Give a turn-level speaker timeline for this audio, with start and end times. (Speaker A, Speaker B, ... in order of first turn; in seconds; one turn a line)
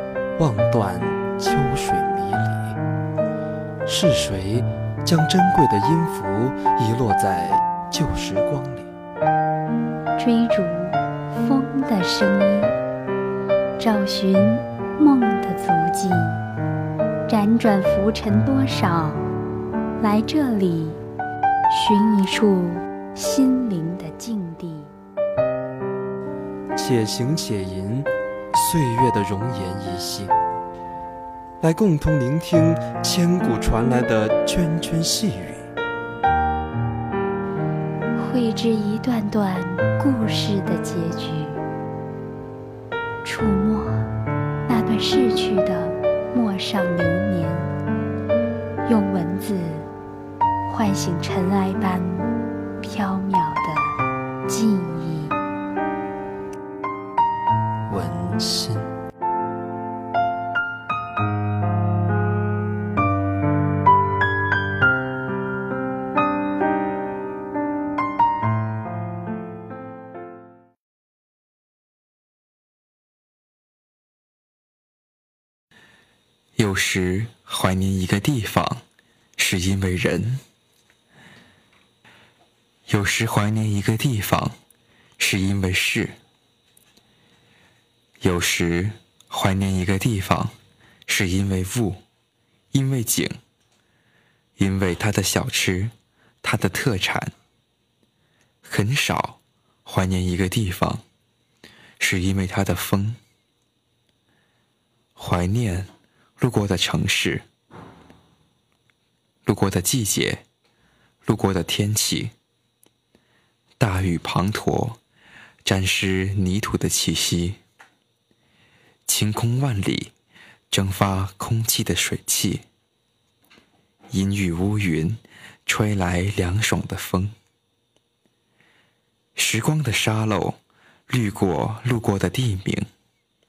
Speaker A: 0.4-2.8
Speaker A: 3.9-8.9
Speaker B: 10.2-12.7
Speaker B: 13.8-16.4
Speaker B: 17.3-19.2
Speaker B: 20.0-21.0
Speaker B: 21.7-24.9
Speaker A: 26.7-30.4
Speaker A: 31.6-35.7
Speaker B: 38.1-41.6
Speaker B: 43.2-44.1
Speaker B: 44.7-47.7
Speaker B: 48.9-49.9
Speaker B: 50.7-52.3
Speaker B: 52.8-55.4
Speaker A: 57.9-58.9
Speaker C: 76.5-78.8
Speaker C: 79.4-80.4
Speaker C: 82.9-84.5
Speaker C: 85.2-86.2
Speaker C: 88.2-90.5
Speaker C: 91.1-92.0
Speaker C: 92.7-93.4
Speaker C: 94.6-97.3
Speaker C: 98.6-101.0
Speaker C: 102.0-103.2
Speaker C: 105.2-107.4
Speaker C: 109.5-110.4
Speaker C: 111.2-112.3
Speaker C: 113.8-115.0
Speaker C: 115.6-117.6
Speaker C: 119.1-120.1
Speaker C: 120.7-122.6
Speaker C: 124.1-127.3
Speaker C: 129.3-130.6
Speaker C: 131.1-132.9